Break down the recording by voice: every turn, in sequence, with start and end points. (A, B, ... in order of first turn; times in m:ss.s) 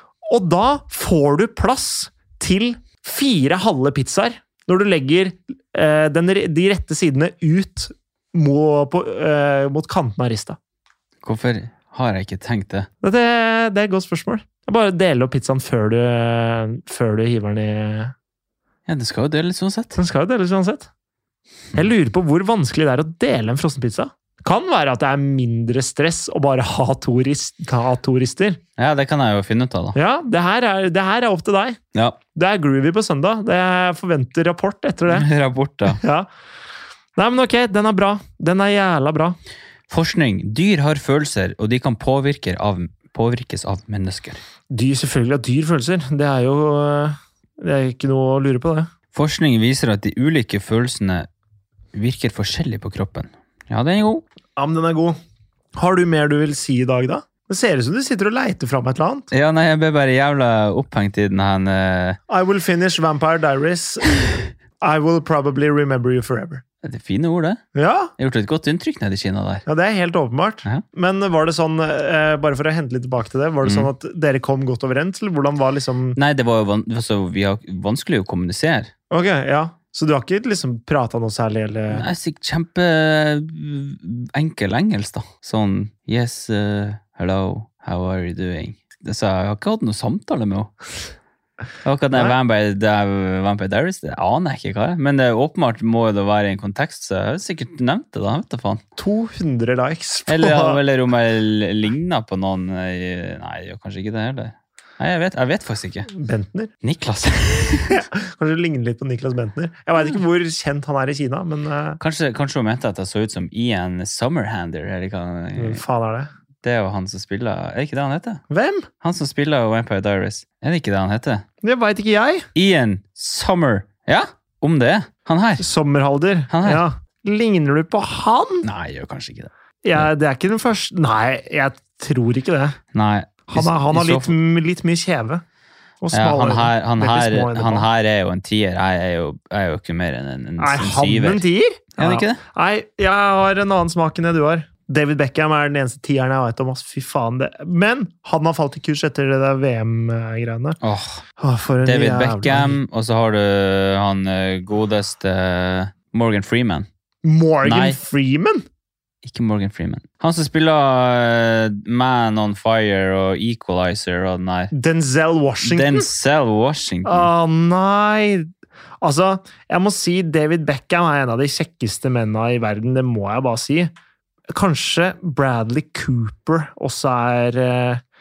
0:00.3-0:10.6 A
0:11.2-0:12.9 B
0:13.0-0:18.1 A
0:18.9-0:20.0 B
0:20.0-0:20.9 A
0:21.7-0:28.6 A
0:28.8-0:30.0 B
0:30.0-0:31.8 A
0:32.4-0:35.3 A
0:35.1-0:36.0 B
0:35.9-0:36.3 A
0:37.2-0:39.4 A
0:39.9-0:44.4 B
0:44.7-0:48.9 A
0:49.1-0:51.3 B
0:51.9-0:54.2 B
0:54.6-0:55.2 A
0:55.8-0:59.3 A
0:59.3-1:02.2 B
1:02.3-1:06.6 A
1:06.8-1:07.6 B
1:07.8-1:08.1 A
1:08.2-1:09.6 B
1:09.7-1:16.2 A
1:13.6-1:13.9 B
1:16.1-1:18.9 B
1:19.1-1:22.1 A
1:21.9-1:30.7 B
1:31.8-1:38.8 B
1:39.0-1:40.8 A
1:40.3-1:46.1 B
1:46.1-1:46.7 A
1:46.8-1:48.0 B
1:47.9-1:52.0 A
1:52.0-1:55.8 B
1:55.6-1:56.3 A
1:56.6-1:58.4 B
1:58.5-1:58.9 A
1:59.0-2:01.4 B
2:01.6-2:02.5 A
2:02.6-2:05.6 B
2:05.6-2:08.7 A
2:06.5-2:06.8 B
2:08.6-2:10.1 B
2:09.8-2:12.8 A
2:12.9-2:14.4 B
2:13.5-2:15.4 A
2:16.0-2:17.9 A
2:16.1-2:21.4 B
2:20.6-2:30.8 A
2:22.0-2:22.4 B
2:30.8-2:31.2 B
2:31.4-2:32.8 A
2:31.8-2:36.9 B
2:37.2-2:38.6 A
2:37.6-2:38.0 B
2:39.2-2:44.7 B
2:44.7-2:46.1 A
2:45.6-2:47.3 B
2:47.0-2:48.5 A
2:49.0-2:53.9 A
2:54.5-2:58.0 A